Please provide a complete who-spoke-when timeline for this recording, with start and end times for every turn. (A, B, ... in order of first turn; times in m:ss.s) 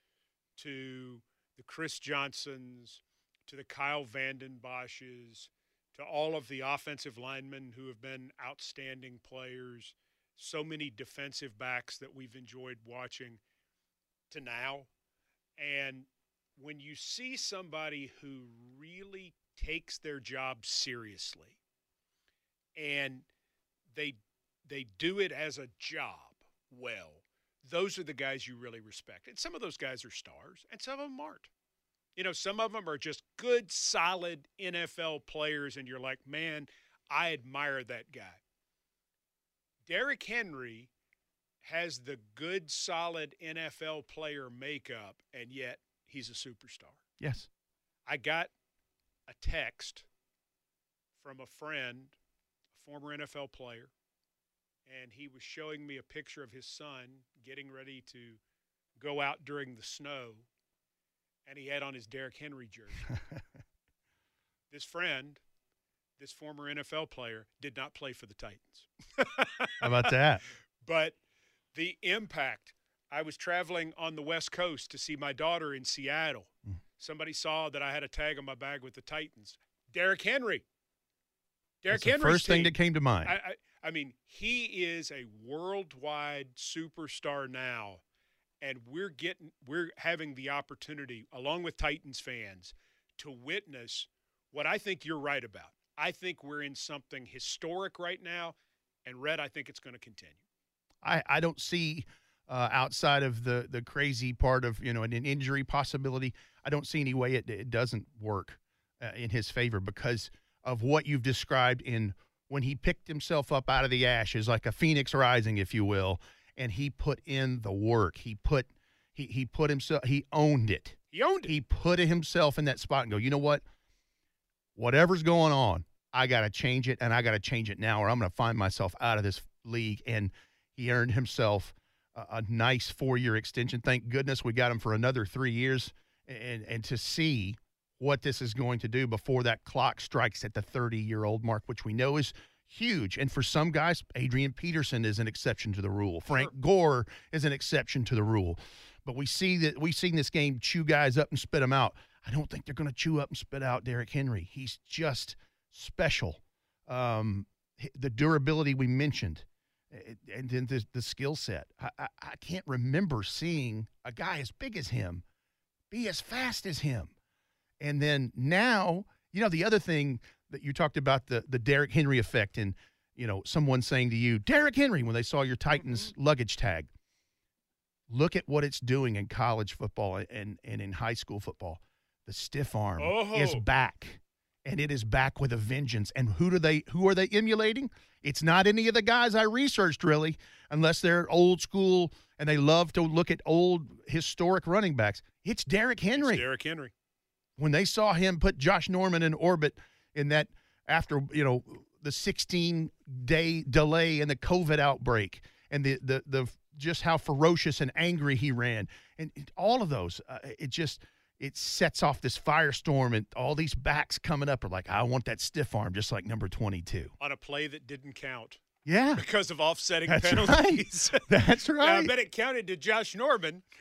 0:00.6-0:13.4 A
0:14.3-0:14.9 A
0:15.6-0:21.6 A
0:22.8-0:23.2 A
0:23.9-0:31.5 A
0:32.2-0:38.4 A
0:39.8-0:40.9 A
0:41.6-0:47.0 A
0:47.2-0:47.5 B
0:48.0-0:48.5 A
0:49.3-0:50.1 A
0:51.2-0:52.2 A
0:52.7-0:53.9 A
0:54.8-0:58.4 A
0:59.0-1:00.5 A
1:01.4-1:03.1 A
1:04.7-1:05.4 A
1:06.2-1:10.1 A
1:09.8-1:10.4 B
1:10.8-1:11.2 A
1:11.7-1:20.6 A
1:21.8-1:28.0 A
1:21.9-1:23.4 B
1:28.6-1:40.4 A
1:41.0-2:03.6 B
2:01.1-2:01.5 A
2:04.8-2:45.2 B
2:45.9-2:47.1 B
2:47.8-2:56.9 B
2:58.1-3:16.4 B
3:03.0-3:03.6 A
3:16.1-3:16.9 A
3:17.6-3:37.1 B
3:37.2-3:38.6 A
3:38.8-3:39.2 B
3:39.2-3:43.6 A
3:40.1-3:42.1 B